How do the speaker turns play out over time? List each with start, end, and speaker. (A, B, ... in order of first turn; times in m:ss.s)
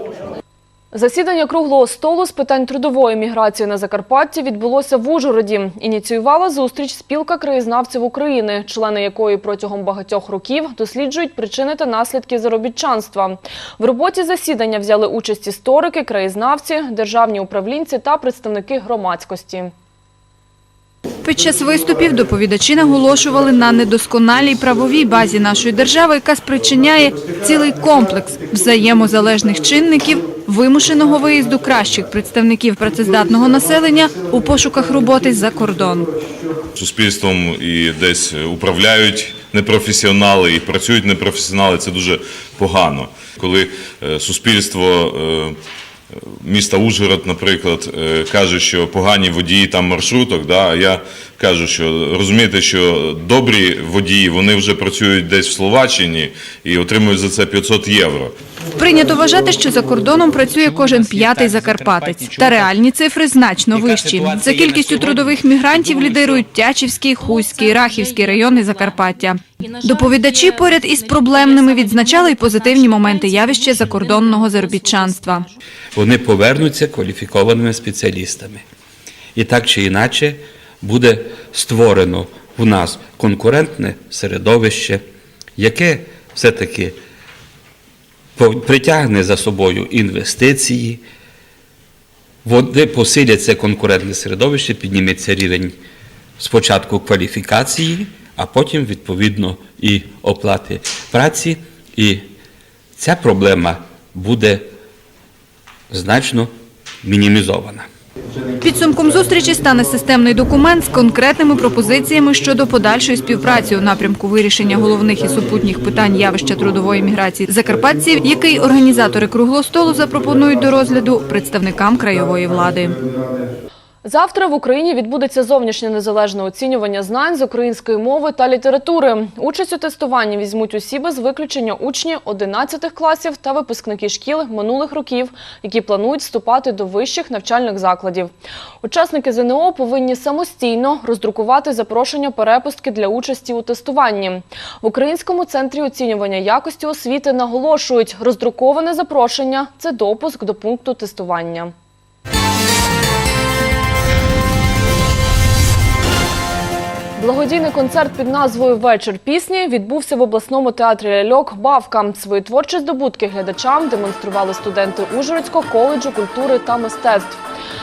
0:00.9-0:19.7 A
0:21.2-0:36.1 B
0:36.8-0:45.6 C
0:46.4-0:58.3 C
0:58.7-1:15.5 B
1:00.8-1:02.7 D
1:03.8-1:06.4 D
1:16.0-1:18.6 D
1:19.4-1:25.0 D
1:25.6-1:26.9 D
1:28.4-1:31.0 D
1:32.4-1:35.7 D
1:36.4-1:42.2 D
1:43.0-1:44.7 D
1:45.9-1:46.5 D
1:47.0-1:47.8 D
1:48.6-2:03.0 B
2:04.0-2:31.7 A
2:37.2-2:47.4 A